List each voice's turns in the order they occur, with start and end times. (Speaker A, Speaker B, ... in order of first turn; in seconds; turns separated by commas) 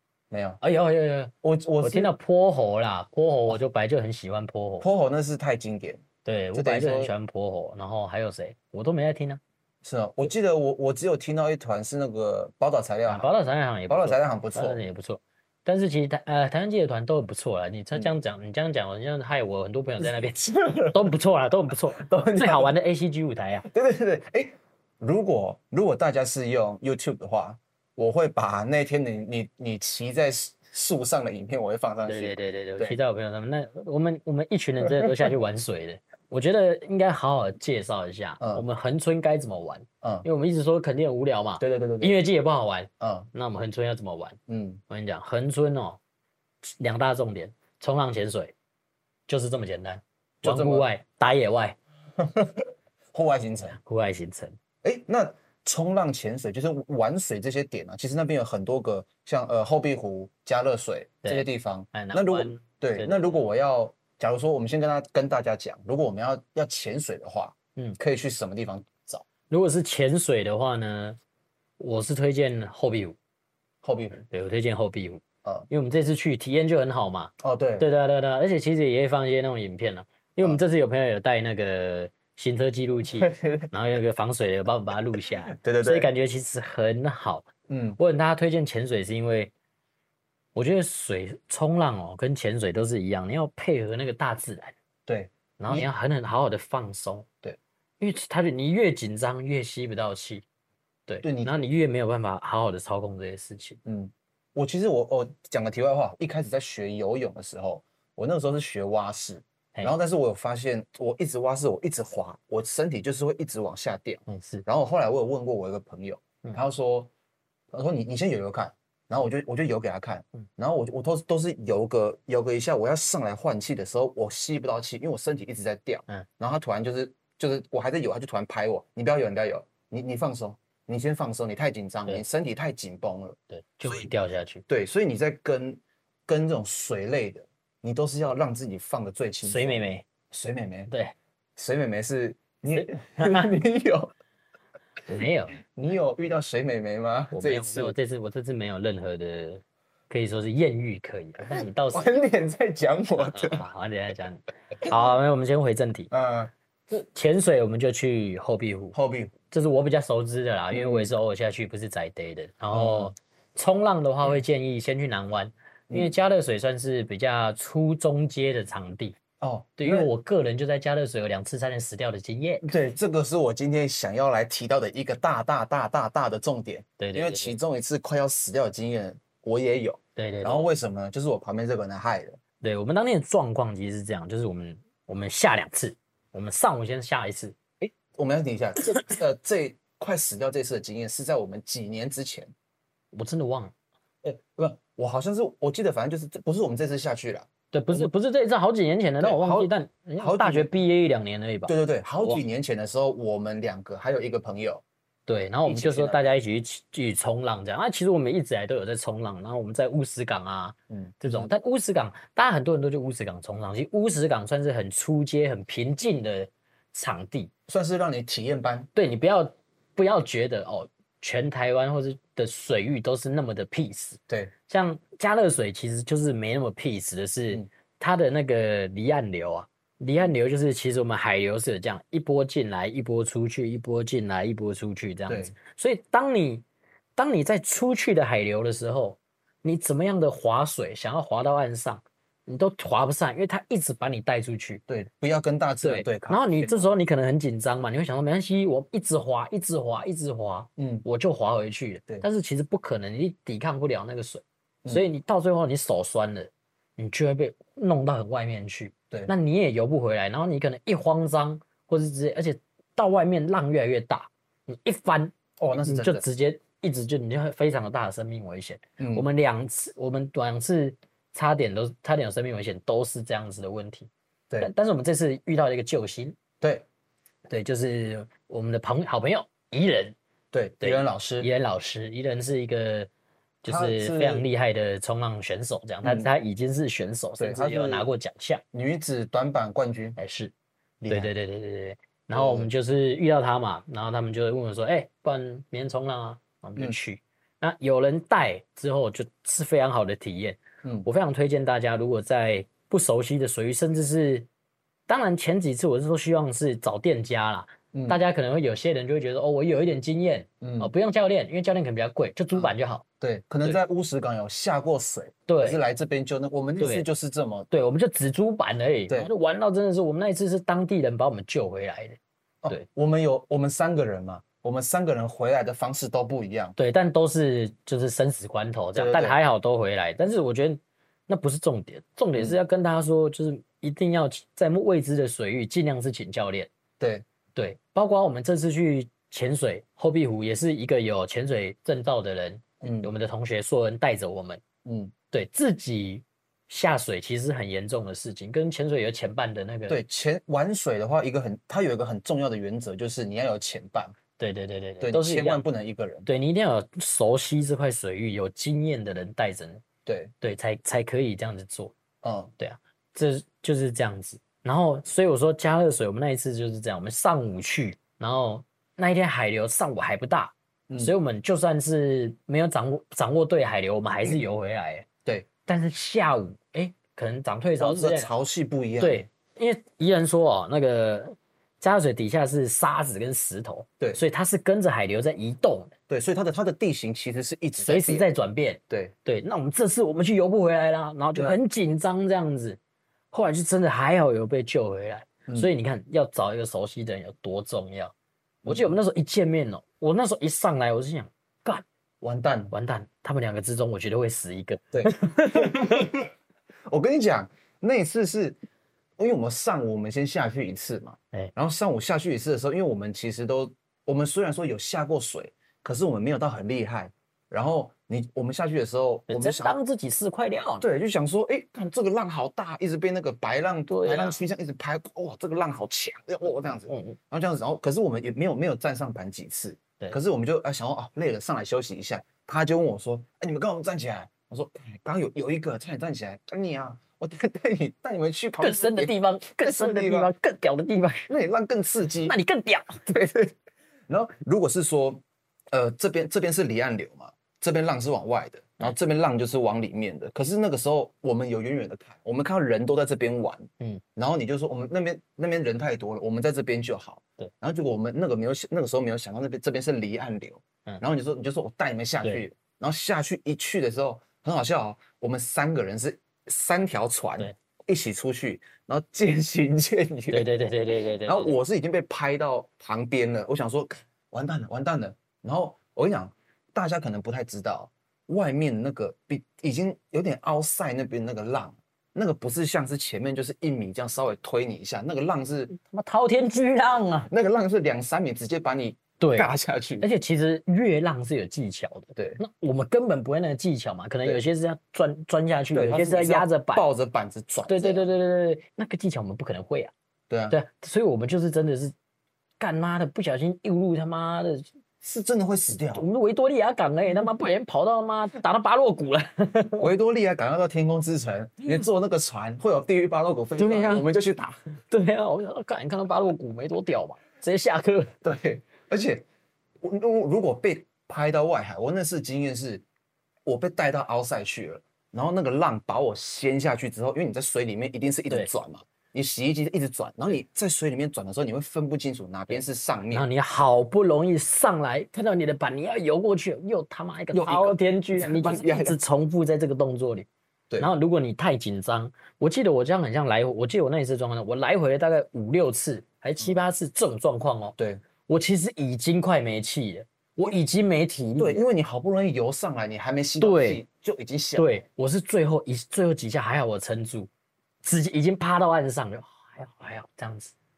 Speaker A: 0.3-0.6, Speaker B: 0.6-4.9, Speaker A: 1.4-2.1, Speaker A: 4.8-6.0, Speaker B: 6.2-9.4, Speaker A: 6.5-7.1, Speaker A: 9.8-13.3, Speaker B: 13.1-23.7, Speaker A: 13.9-14.8, Speaker A: 20.0-21.1, Speaker A: 21.9-22.7, Speaker A: 23.6-33.0, Speaker B: 32.1-46.0, Speaker A: 38.4-38.6, Speaker A: 41.6-42.2, Speaker A: 43.0-43.3, Speaker A: 44.5-44.8, Speaker B: 46.6-48.5, Speaker B: 49.3-51.8, Speaker A: 50.4-50.9, Speaker A: 52.2-53.8, Speaker B: 53.7-54.6, Speaker A: 54.8-69.2, Speaker B: 61.2-63.5, Speaker B: 69.5-71.2, Speaker B: 71.8-73.2, Speaker A: 73.8-74.2, Speaker B: 74.2-89.5, Speaker A: 77.4-77.9, Speaker A: 83.2-83.7, Speaker A: 85.3-86.1, Speaker A: 87.7-88.0, Speaker B: 90.5-94.8, Speaker A: 95.1-95.9, Speaker B: 95.6-97.3, Speaker B: 98.0-100.5, Speaker B: 101.1-103.8, Speaker A: 101.2-101.6, Speaker A: 103.9-117.1, Speaker B: 114.3-114.7, Speaker A: 117.7-134.1, Speaker B: 133.5-134.6, Speaker A: 134.7-140.9, Speaker B: 139.4-140.1, Speaker B: 140.9-141.2, Speaker A: 141.6-144.1, Speaker B: 142.7-143.5, Speaker B: 145.1-145.6, Speaker A: 145.6-147.9, Speaker B: 147.3-152.1, Speaker A: 151.5-153.7, Speaker B: 153.2-156.1, Speaker A: 156.1-156.5, Speaker B: 156.9-159.0, Speaker A: 158.9-159.3, Speaker B: 159.5-169.2, Speaker A: 160.7-161.1, Speaker A: 162.7-163.1, Speaker A: 169.4-170.1, Speaker B: 169.8-172.7, Speaker A: 172.6-182.4, Speaker B: 177.0-177.6, Speaker B: 180.2-180.7, Speaker B: 182.6-187.6, Speaker A: 187.8-192.5, Speaker B: 193.1-193.7, Speaker A: 194.2-198.1, Speaker B: 197.7-202.4, Speaker A: 199.2-200.7, Speaker A: 201.7-204.8, Speaker B: 205.3-217.5, Speaker A: 205.7-206.3, Speaker A: 210.9-211.5, Speaker A: 217.7-218.9, Speaker B: 218.9-236.6, Speaker A: 235.3-235.5, Speaker B: 237.2-244.8, Speaker A: 244.9-246.9, Speaker B: 245.8-274.1, Speaker A: 250.8-251.1, Speaker A: 265.6-266.2, Speaker A: 269.0-269.3, Speaker B: 274.6-276.4, Speaker B: 277.5-280.2, Speaker A: 280.5-281.5, Speaker B: 280.8-283.1, Speaker B: 283.6-288.6, Speaker A: 283.7-284.4, Speaker A: 286.0-286.3, Speaker A: 287.4-288.1, Speaker A: 288.7-290.2, Speaker B: 290.2-290.5, Speaker A: 291.0-291.3, Speaker B: 291.1-304.5, Speaker A: 292.3-292.7, Speaker B: 305.1-313.0, Speaker A: 307.9-308.2, Speaker A: 310.6-310.9, Speaker A: 312.5-317.7, Speaker B: 315.5-315.8, Speaker B: 316.8-317.1, Speaker B: 317.7-322.9, Speaker A: 322.6-326.8, Speaker B: 326.8-336.7, Speaker A: 328.9-329.4, Speaker A: 337.0-337.2, Speaker B: 337.6-344.6, Speaker A: 342.8-343.1, Speaker A: 344.9-345.1, Speaker B: 345.3-350.0, Speaker A: 349.9-354.2, Speaker B: 354.4-355.6, Speaker A: 355.0-356.3, Speaker B: 356.3-359.8, Speaker A: 360.1-360.3, Speaker B: 360.4-361.9, Speaker A: 362.2-362.5, Speaker B: 362.6-375.1, Speaker A: 370.9-371.1, Speaker B: 375.7-378.3, Speaker A: 377.8-379.3, Speaker B: 379.0-385.9, Speaker A: 386.1-388.3, Speaker B: 387.8-392.8, Speaker B: 393.3-398.1, Speaker A: 398.6-399.0, Speaker B: 398.7-401.9, Speaker A: 402.2-402.7, Speaker B: 402.7-406.1, Speaker A: 404.9-406.3, Speaker A: 406.9-408.6, Speaker A: 409.2-419.8, Speaker B: 419.3-420.9, Speaker A: 420.8-440.3, Speaker B: 423.9-424.4, Speaker B: 426.9-427.2, Speaker B: 438.6-441.3, Speaker A: 441.3-442.4, Speaker B: 442.2-443.0, Speaker A: 443.1-443.5, Speaker A: 444.1-470.5, Speaker B: 470.3-471.6, Speaker A: 471.3-485.7, Speaker B: 485.7-487.3, Speaker A: 487.3-490.1, Speaker B: 489.2-496.9, Speaker A: 495.7-498.1, Speaker B: 497.7-499.9, Speaker A: 500.3-500.6, Speaker B: 500.5-501.9, Speaker B: 502.6-504.7, Speaker A: 505.0-506.1, Speaker B: 505.9-509.9, Speaker A: 509.8-514.6, Speaker B: 513.6-514.1, Speaker B: 514.9-518.1, Speaker A: 518.2-519.2, Speaker A: 519.8-522.8, Speaker A: 523.5-533.3, Speaker B: 533.1-540.3, Speaker A: 537.3-539.0, Speaker B: 540.8-547.8, Speaker A: 547.8-548.0, Speaker B: 548.3-551.6, Speaker A: 551.4-554.7, Speaker B: 553.4-553.8, Speaker B: 554.6-557.3, Speaker B: 557.8-560.5